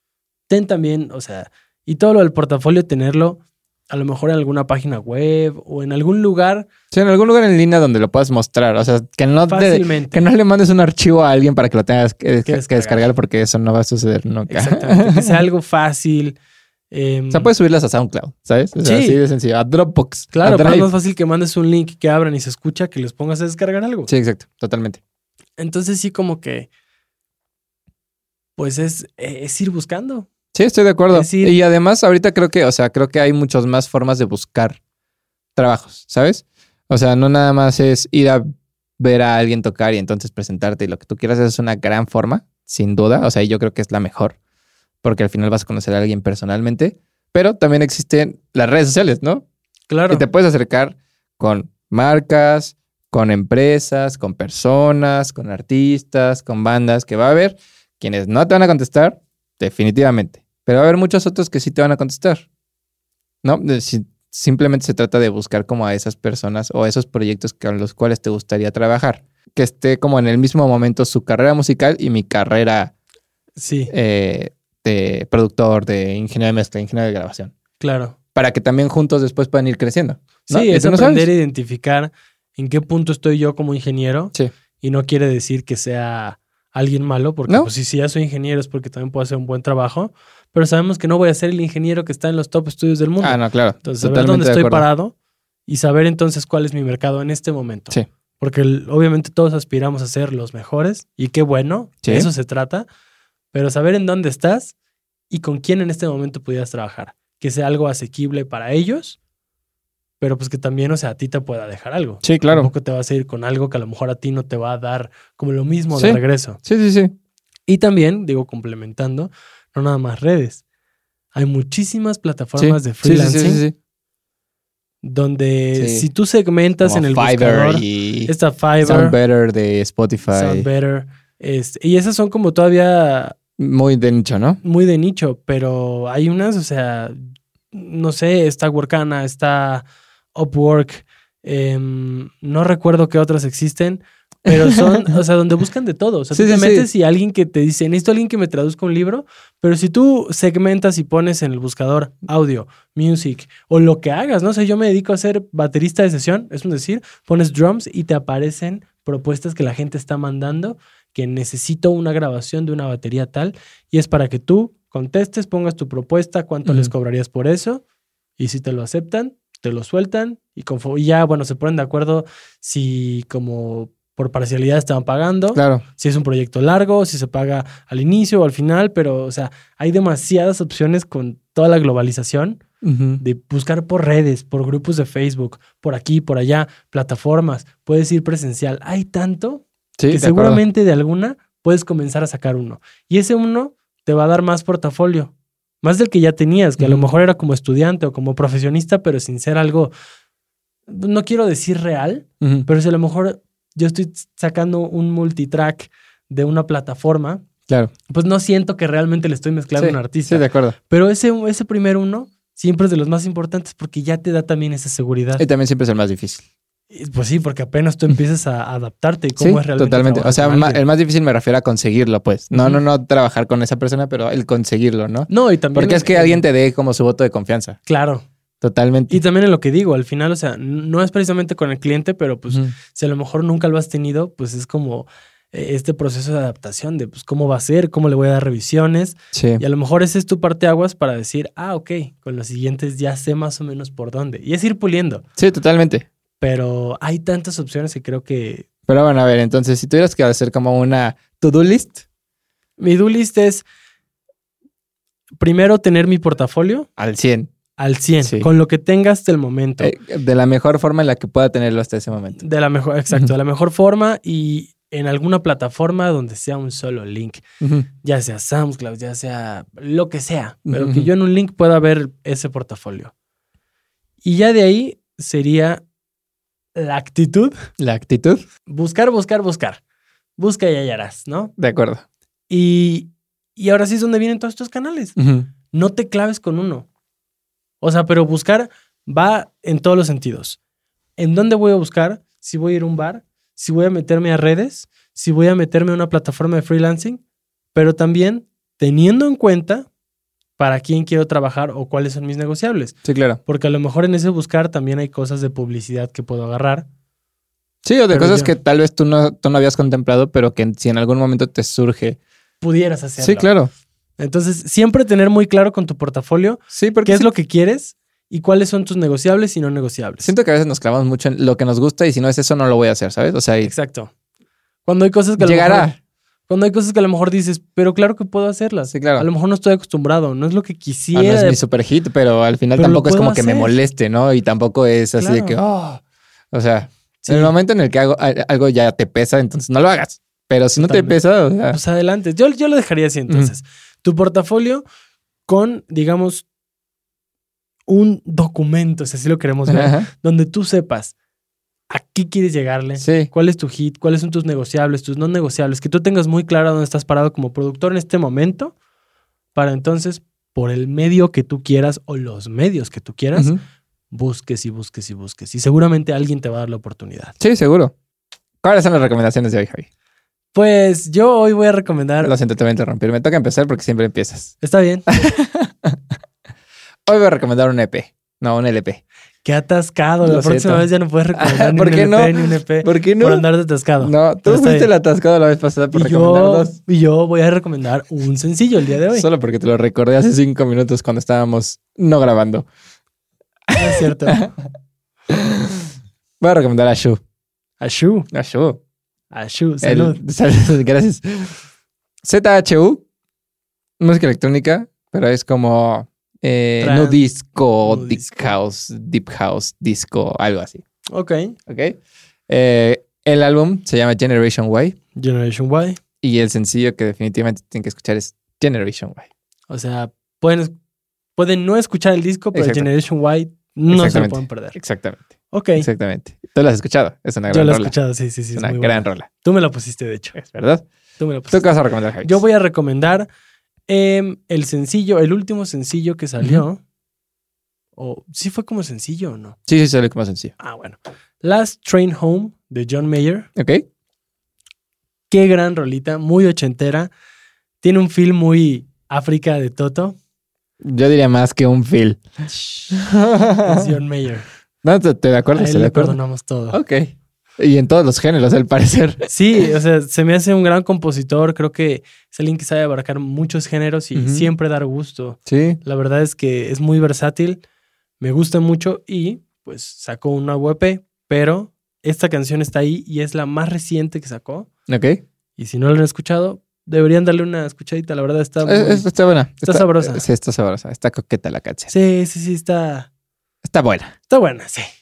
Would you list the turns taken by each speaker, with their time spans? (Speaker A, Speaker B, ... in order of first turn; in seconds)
Speaker A: 0.5-6.7, 9.5-10.3, 12.4-13.1, 14.5-16.4, 16.9-17.5, 18.8-19.2, 20.3-24.1, 25.6-26.7, 28.6-30.3, 31.1-31.6, 49.9-50.2, 73.6-73.9, 77.8-78.2, 80.5-95.1, 95.7-102.9, 103.5-104.7, 105.3-109.2, 110.2-116.6, 117.7-120.6, 121.3-123.6, 125.0-129.2, 130.3-133.3, 134.6-137.2, 137.7-167.8, 168.4-182.6, 183.2-199.9, 200.9-207.4, 208.1-215.4, 216.9-220.8, 222.5-222.8, 225.3-226.4, 227.8-228.2, 229.1-245.2, 246.4-248.7, 252.8-253.7, 255.4-256.9, 257.8-259.9, 262.4-267.4, 268.0-273.1, 274.2-275.8, 276.8-277.5, 278.7-279.8, 280.4-281.5, 282.5-285.2, 285.7-286.9, 287.8-290.6, 291.2-297.2, 297.7-299.9, 300.6-306.9, 308.1-308.5, 312.6-313.5, 314.2-320.3, 323.6-324.1, 324.8-325.9, 326.5-331.6, 332.8-333.7, 335.2-335.6, 337.2-337.5, 340.8-341.2, 341.7-344.8, 345.5-346.4, 347.9-351.1, 351.9-358.7, 359.5-363.5, 364.1-367.3, 370.5-372.3, 374.6-375.2, 379.4-384.9, 385.9-389.2, 393.7-394.4, 397.8-398.3, 399.3-400.2, 406.8-407.2, 407.8-408.5, 411.1-411.6, 415.1-416.0, 419.7-420.7, 421.4-424.8, 425.5-425.9, 427.5-430.3, 431.2-431.6, 432.2-433.3, 433.9-436.8, 438.0-439.6, 440.6-443.5, 445.3-447.1, 447.8-450.2, 452.5-452.9, 453.6-454.4, 455.6-456.8, 459.3-467.6, 468.2-474.7, 475.6-479.1, 479.6-480.2, 481.9-483.1, 484.3-484.9
Speaker B: 6.9-15.4, 17.3-20.9, 24.1-25.0, 30.5-34.8, 35.5-38.5, 39.0-44.4, 45.0-49.4, 50.1-62.4, 63.4-72.9, 73.9-77.5, 78.3-81.3, 93.2-94.9, 102.0-102.3, 112.2-112.7, 115.9-117.1, 122.6-123.7, 125.8-126.1, 126.8-130.7, 133.6-134.6, 146.3-146.9, 166.7-166.9, 175.5-175.8, 182.8-183.2, 190.0-190.6, 196.8-197.1, 202.4-202.7, 209.8-210.8, 215.4-216.4, 219.4-227.8, 228.6-229.2, 239.3-239.6, 245.4-246.1, 248.9-252.0, 257.0-257.5, 258.2-258.5, 259.8-262.4, 267.6-267.9, 270.7-271.1, 277.8-278.4, 281.6-282.0, 285.2-285.5, 303.0-303.4, 307.8-312.2, 313.2-313.7, 316.7-317.3, 320.2-323.7, 325.4-325.9, 328.9-329.2, 331.1-341.8, 349.7-350.1, 353.0-353.3, 363.3-363.6, 367.4-367.9, 368.6-369.9, 372.2-374.6, 375.1-376.0, 377.1-379.0, 380.2-383.4, 384.0-386.8, 389.1-392.7, 393.7-394.5, 395.3-397.2, 398.3-398.8, 399.8-401.5, 402.2-403.0, 404.0-410.8, 411.7-412.0, 412.5-415.0, 416.2-419.3, 422.5-422.9, 423.9-425.2, 425.8-427.9, 428.5-429.3, 430.3-430.9, 431.5-432.4, 439.7-440.5, 443.6-443.8, 450.8-452.2, 452.9-453.9, 454.8-456.2, 456.7-459.3, 464.1-464.5, 465.5-465.8, 474.9-475.2, 478.6-481.9, 483.6-484.1